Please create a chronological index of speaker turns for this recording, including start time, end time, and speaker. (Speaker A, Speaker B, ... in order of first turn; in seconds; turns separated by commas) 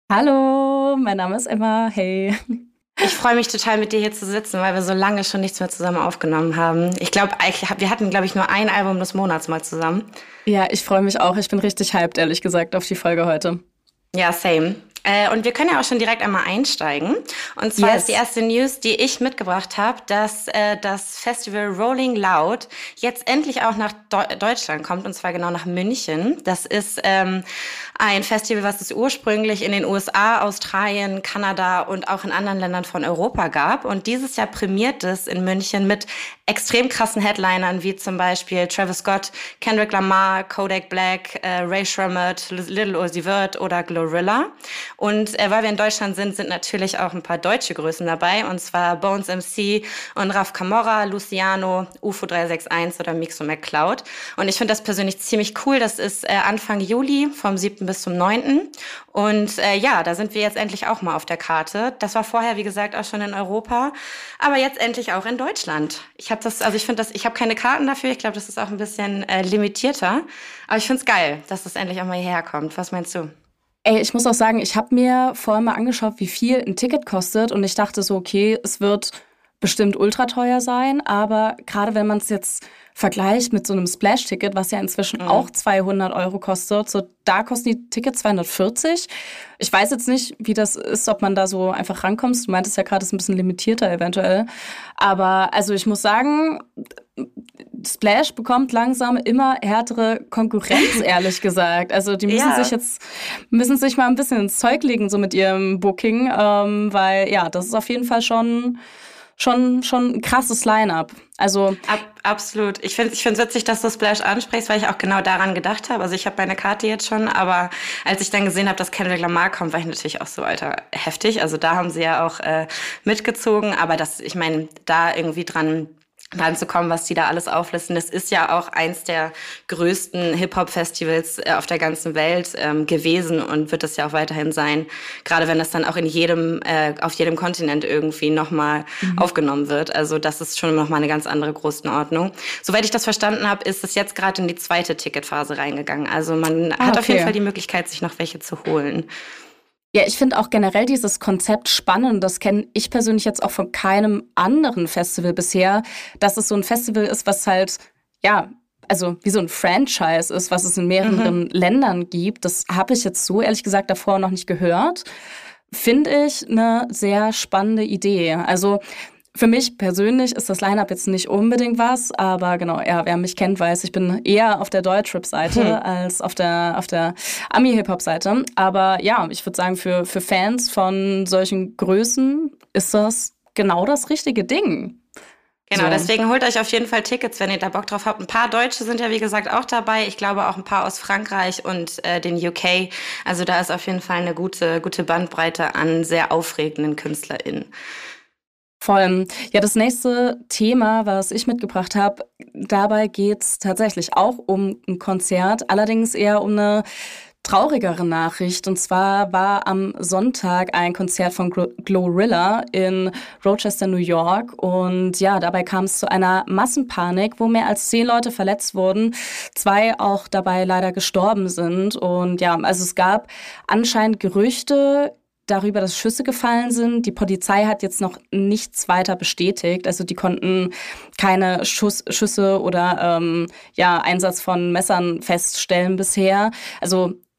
Speaker A: 0.1-3.1, Speaker B: 3.0-10.1, Speaker A: 10.4-13.6, Speaker B: 14.1-27.4, Speaker A: 17.8-18.2, Speaker B: 28.0-73.3, Speaker A: 73.8-94.5, Speaker B: 85.2-85.5, Speaker A: 95.0-96.6, Speaker A: 97.2-108.8, Speaker B: 100.7-101.0, Speaker B: 102.3-102.7, Speaker A: 109.4-111.8, Speaker B: 111.8-149.1, Speaker A: 139.0-139.3, Speaker A: 146.8-147.3, Speaker A: 149.9-165.1, Speaker B: 161.0-161.3, Speaker A: 165.7-168.8, Speaker A: 169.3-185.0, Speaker B: 175.5-175.8, Speaker B: 185.7-197.7, Speaker A: 185.7-186.1, Speaker A: 198.8-206.8, Speaker A: 207.4-237.2